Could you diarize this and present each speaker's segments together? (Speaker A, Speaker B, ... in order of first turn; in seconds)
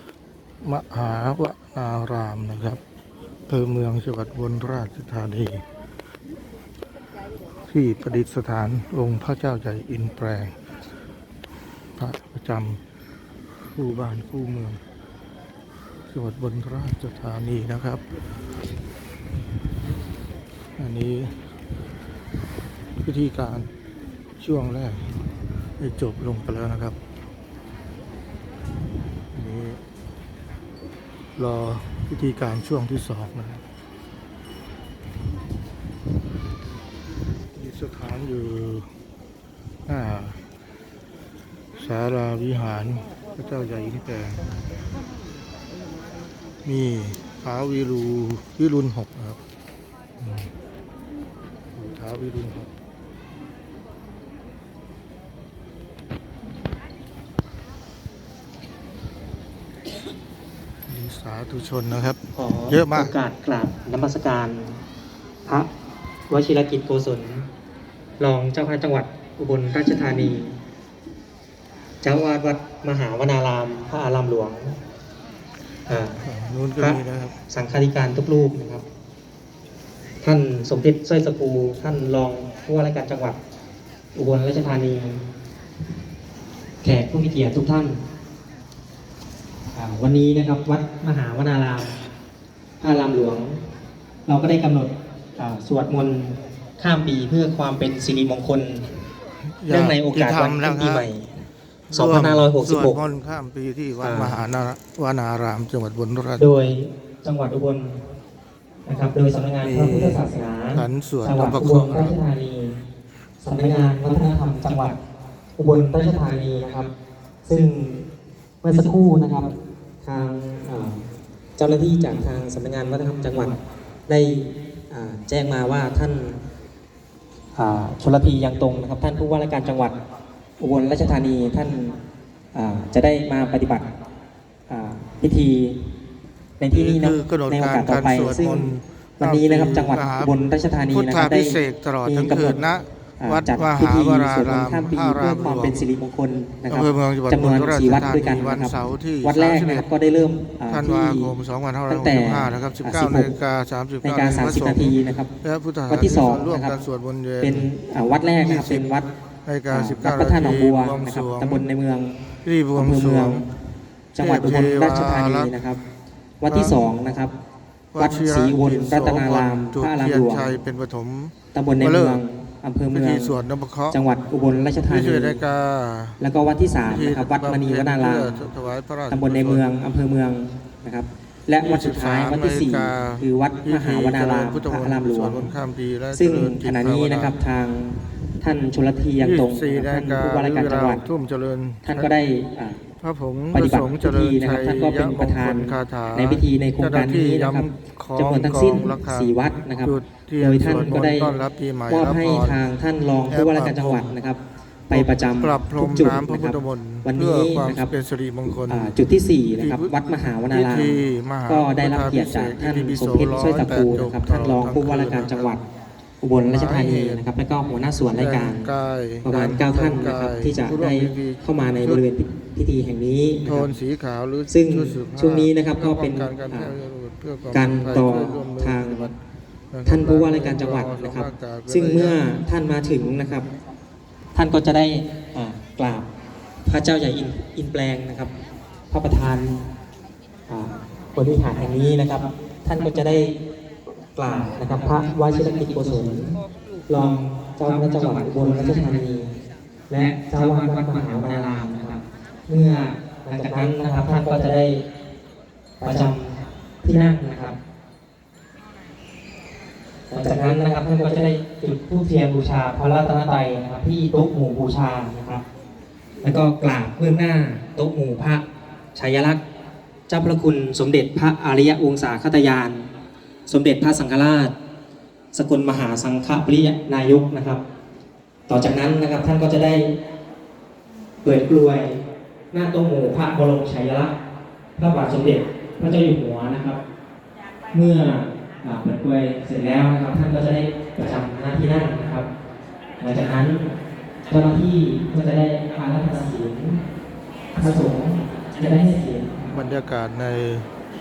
Speaker A: 0.6-2.8, 3.5-5.7, 7.7-10.6, 12.0-12.8, 13.5-14.8, 16.1-18.0, 20.8-21.5, 23.0-23.7, 24.4-25.3, 25.8-27.0, 29.3-29.8, 31.4-33.6, 37.5-38.9, 39.9-40.4, 41.8-44.4, 46.6-49.4, 50.2-50.5, 51.7-52.7, 60.9-63.1, 76.2-77.4, 99.6-101.1, 101.9-106.5, 109.6-112.2, 136.7-145.9, 146.7-149.9, 150.7-157.7, 158.3-158.9, 159.4-161.7, 162.4-163.5, 164.2-165.5, 166.5-166.8, 167.9-172.2, 172.9-174.0, 174.9-176.2, 176.8-179.7, 181.6-187.4, 189.2-192.1, 193.0-202.6, 203.3-204.2, 204.9-209.0, 209.6-209.9, 210.5-215.6, 216.5-217.3, 218.1-222.0, 223.5-229.2, 229.7-232.3, 299.5-300.7
Speaker B: 62.4-64.8, 66.3-67.5, 68.2-70.6, 72.0-74.8, 75.9-76.2, 76.8-78.8, 80.2-83.4, 84.2-85.2, 86.8-88.0, 89.7-92.0, 92.8-93.6, 94.3-99.0, 99.7-103.0, 104.0-104.4, 106.4-108.1, 108.9-112.8, 113.4-115.0, 115.6-116.9, 117.5-118.1, 118.6-126.4, 127.5-130.0, 130.6-132.0, 132.5-133.9, 134.7-135.9, 136.6-142.6, 143.2-151.4, 151.9-153.4, 154.0-155.3, 155.9-156.8, 157.4-159.1, 159.7-163.5, 164.1-165.8, 166.4-167.4, 168.0-170.6, 171.5-173.4, 173.9-175.4, 176.2-178.5, 179.1-185.5, 186.1-191.1, 191.8-192.8, 193.5-207.9, 208.7-215.7, 216.2-218.7, 219.2-223.8, 224.5-226.8, 227.5-229.1, 229.8-233.5, 234.3-236.1, 236.7-238.3, 238.9-239.7, 240.5-243.4, 244.2-249.4, 249.9-254.9, 255.8-257.6, 260.1-265.4, 266.2-269.4, 270.1-272.9, 273.5-274.5, 275.3-277.6, 278.5-280.0, 281.2-284.1, 284.8-286.8, 287.7-292.3, 293.0-293.7, 294.3-296.8, 297.5-299.6